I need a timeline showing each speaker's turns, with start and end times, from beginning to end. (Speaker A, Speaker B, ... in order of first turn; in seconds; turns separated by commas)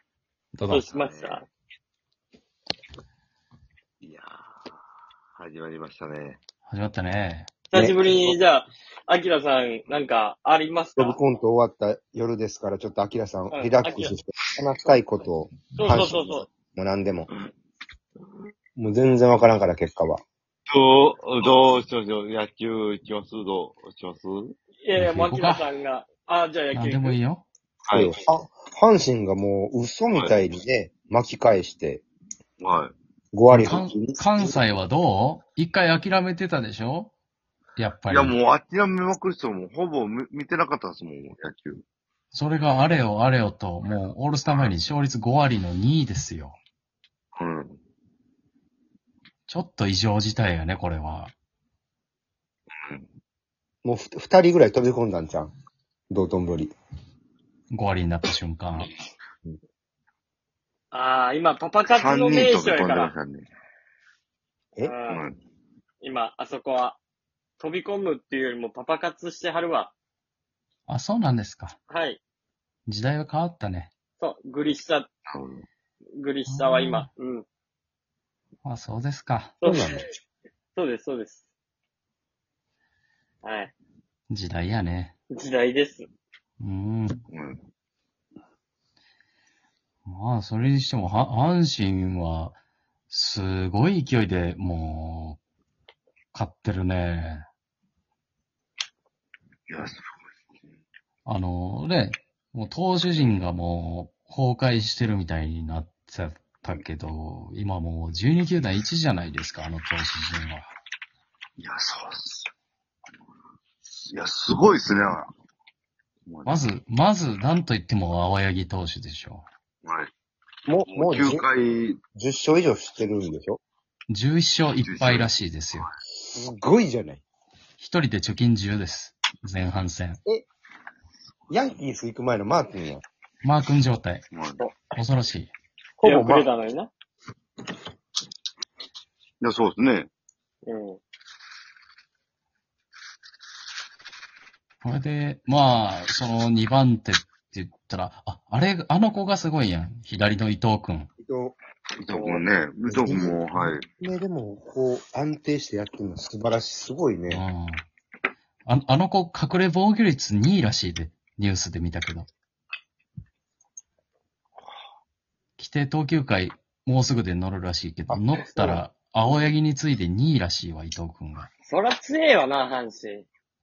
Speaker A: 0.5-0.8, Speaker B: 0.7-1.4, Speaker C: 0.9-1.4, Speaker C: 4.0-4.7, Speaker C: 5.3-6.4, Speaker A: 6.7-7.5, Speaker B: 7.7-11.2, Speaker D: 7.7-8.3, Speaker D: 11.0-17.3, Speaker B: 13.5-14.1, Speaker B: 15.7-16.5, Speaker D: 18.8-20.2, Speaker C: 20.7-24.6, Speaker B: 24.8-27.2, Speaker A: 24.9-25.6, Speaker A: 26.7-27.4, Speaker C: 27.9-28.1, Speaker D: 27.9-32.0, Speaker C: 30.1-30.4, Speaker C: 32.6-32.9, Speaker D: 33.3-34.6, Speaker A: 33.5-37.1, Speaker A: 37.8-38.4, Speaker C: 38.1-41.8, Speaker A: 42.3-46.6, Speaker C: 47.4-47.8, Speaker A: 49.5-51.3, Speaker D: 53.8-55.5, Speaker D: 56.1-56.7, Speaker A: 57.7-58.9, Speaker B: 60.9-63.1, Speaker C: 61.9-63.5, Speaker B: 64.8-65.2, Speaker C: 65.1-65.3, Speaker B: 66.0-67.0, Speaker B: 67.6-69.9, Speaker A: 70.9-71.8, Speaker B: 71.9-72.2, Speaker A: 72.9-73.9, Speaker B: 74.2-75.1, Speaker C: 75.3-75.7, Speaker B: 76.2-77.4, Speaker A: 76.5-77.1, Speaker A: 78.6-79.5, Speaker B: 79.6-79.9, Speaker D: 79.6-80.1, Speaker B: 80.8-81.4, Speaker B: 83.4-83.7, Speaker A: 84.3-85.1, Speaker B: 85.3-86.0, Speaker A: 86.6-87.2, Speaker C: 87.3-87.6, Speaker A: 90.0-92.6, Speaker A: 93.1-95.4, Speaker A: 96.3-97.5, Speaker C: 99.7-100.1, Speaker A: 101.2-110.7, Speaker C: 111.6-112.5, Speaker C: 114.1-115.3, Speaker C: 116.3-116.7, Speaker A: 116.5-119.5, Speaker C: 119.8-120.1, Speaker D: 120.7-121.4, Speaker C: 120.9-122.0, Speaker D: 122.1-123.6, Speaker A: 124.1-125.9, Speaker C: 124.8-125.8, Speaker D: 126.3-127.2, Speaker A: 127.8-130.2, Speaker D: 131.5-133.0, Speaker A: 133.4-134.2, Speaker C: 134.3-134.6, Speaker A: 134.9-135.5, Speaker D: 136.0-136.5, Speaker B: 136.0-136.9, Speaker C: 139.4-140.1, Speaker B: 140.7-141.0, Speaker A: 144.8-151.1, Speaker D: 151.2-151.6, Speaker C: 152.0-153.8, Speaker B: 152.2-152.4, Speaker D: 152.8-157.4, Speaker A: 157.3-157.8, Speaker A: 158.7-162.3, Speaker A: 165.6-171.5, Speaker D: 168.1-168.8, Speaker B: 171.7-173.2